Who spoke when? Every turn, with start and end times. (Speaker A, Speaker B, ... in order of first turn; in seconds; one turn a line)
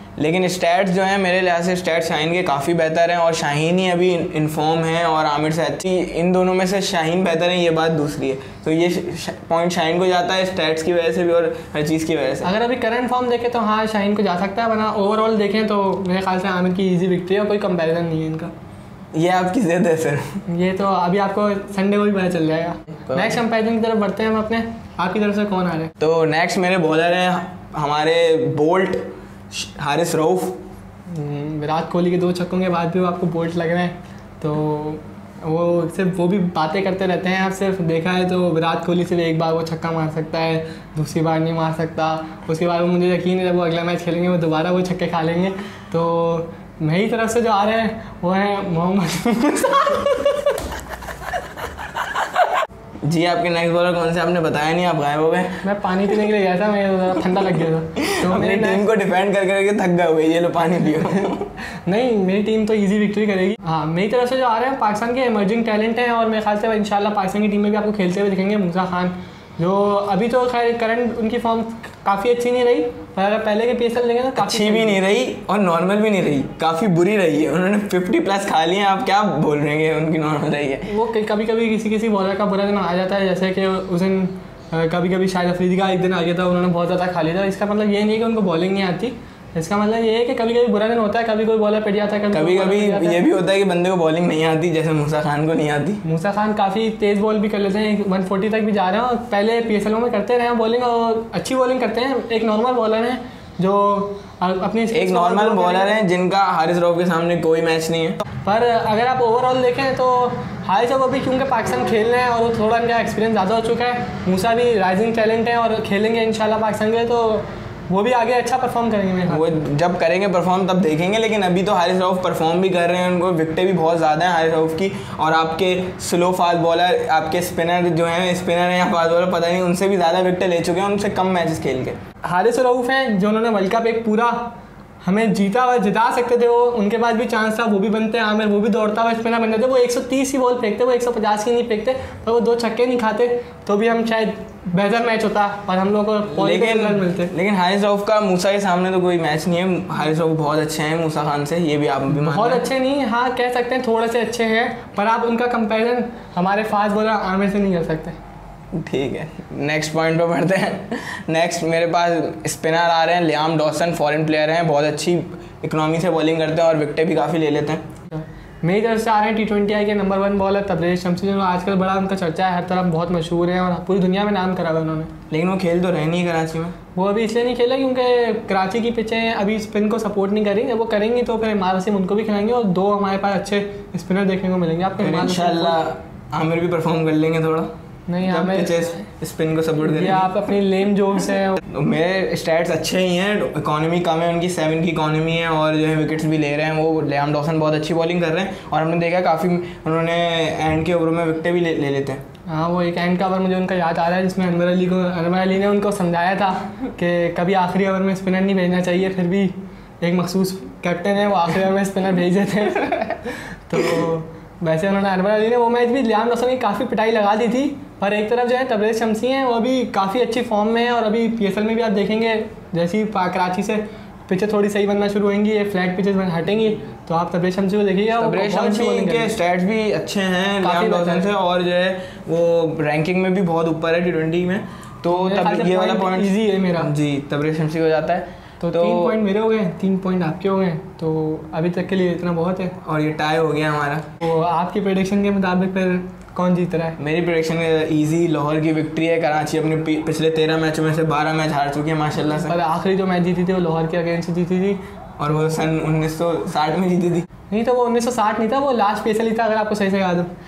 Speaker A: 0.2-12.5
Speaker B: 12.4-18.5
Speaker A: 19.1-20.4
Speaker B: 20.5-25.9
Speaker A: 26.0-30.6
Speaker B: 31.1-50.1
Speaker A: 53.0-55.6
Speaker B: 55.6-58.8
Speaker A: 58.0-61.5
Speaker B: 61.9-75.0
Speaker A: 74.4-80.9
Speaker B: 80.9-93.2
Speaker A: 92.3-96.0
Speaker B: 96.0-105.9
Speaker A: 104.9-108.2
Speaker B: 108.4-119.4
Speaker A: 119.3-132.0
Speaker B: 132.2-147.3
Speaker A: 146.3-152.6
Speaker B: 152.1-158.2
Speaker A: 158.7-167.8
Speaker B: 168.1-175.1
Speaker A: 175.3-176.7
Speaker B: 176.9-185.8
Speaker A: 185.0-187.7
Speaker B: 188.1-189.1
Speaker A: 188.3-190.3
Speaker B: 189.8-191.6
Speaker A: 191.7-202.2
Speaker B: 202.5-229.3
Speaker A: 228.2-239.2
Speaker B: 230.6-231.3
Speaker B: 235.1-236.9
Speaker B: 238.6-242.8
Speaker A: 242.8-244.1
Speaker B: 244.2-247.0
Speaker A: 247.0-252.5
Speaker B: 252.3-254.8
Speaker A: 255.2-257.2
Speaker B: 257.5-260.3